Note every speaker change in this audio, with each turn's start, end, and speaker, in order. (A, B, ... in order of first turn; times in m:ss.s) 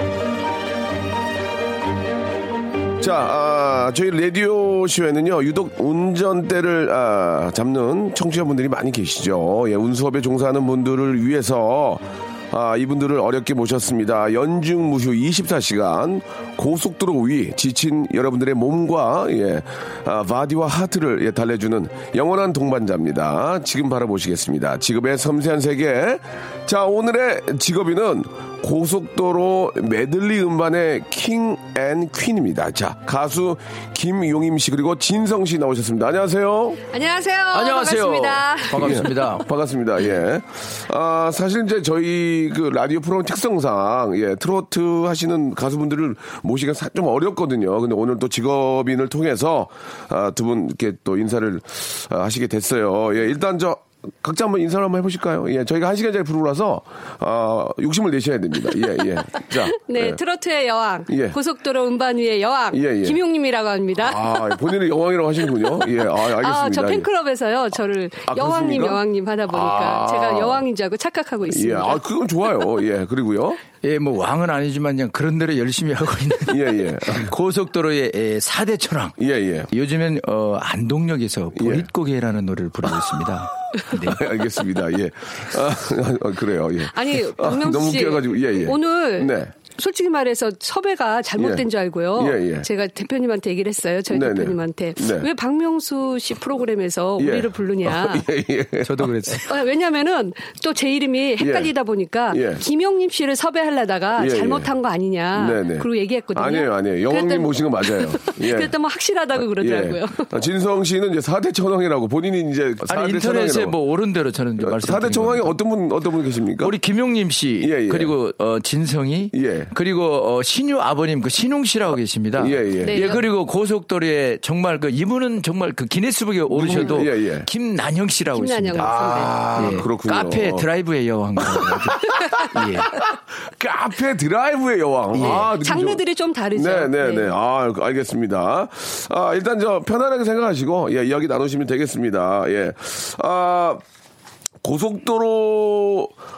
0:03.0-0:36.8 A
0:36.9-0:39.0 B
0:37.5-0:39.5 C
0:38.7-1:00.2 A
0:59.7-1:04.5 B
1:01.1-1:01.4 A
1:02.7-1:03.2 A
1:04.0-1:07.1 A
1:06.4-1:12.0 B
1:08.2-1:10.6 A
1:11.5-1:13.6 A
1:13.8-1:19.2 C
1:16.5-1:17.3 A
1:19.2-1:19.7 A
1:19.7-1:24.2 C
1:21.5-1:21.9 A
1:23.9-1:29.5 A
1:26.9-1:38.2 B
1:31.4-1:32.7 A
1:34.1-1:35.3 A
1:37.2-1:39.4 A
1:38.8-1:39.5 C
1:39.5-1:50.3 B
1:41.4-1:41.7 A
1:42.3-1:42.6 A
1:44.2-1:44.7 A
1:45.3-1:48.7 A
1:49.4-1:53.8 A
1:52.9-1:55.5 C
1:54.6-1:56.8 A
1:56.6-2:08.9 C
1:57.6-1:58.1 A
1:59.3-1:59.7 A
2:02.4-2:03.2 A
2:02.8-2:03.2 B
2:06.5-2:07.5 A
2:08.3-2:09.4 B
2:08.8-2:10.7 A
2:09.5-2:12.9 C
2:11.4-2:16.0 A
2:15.1-2:15.5 C
2:15.2-2:17.3 B
2:16.5-2:23.8 A
2:24.6-2:26.1 A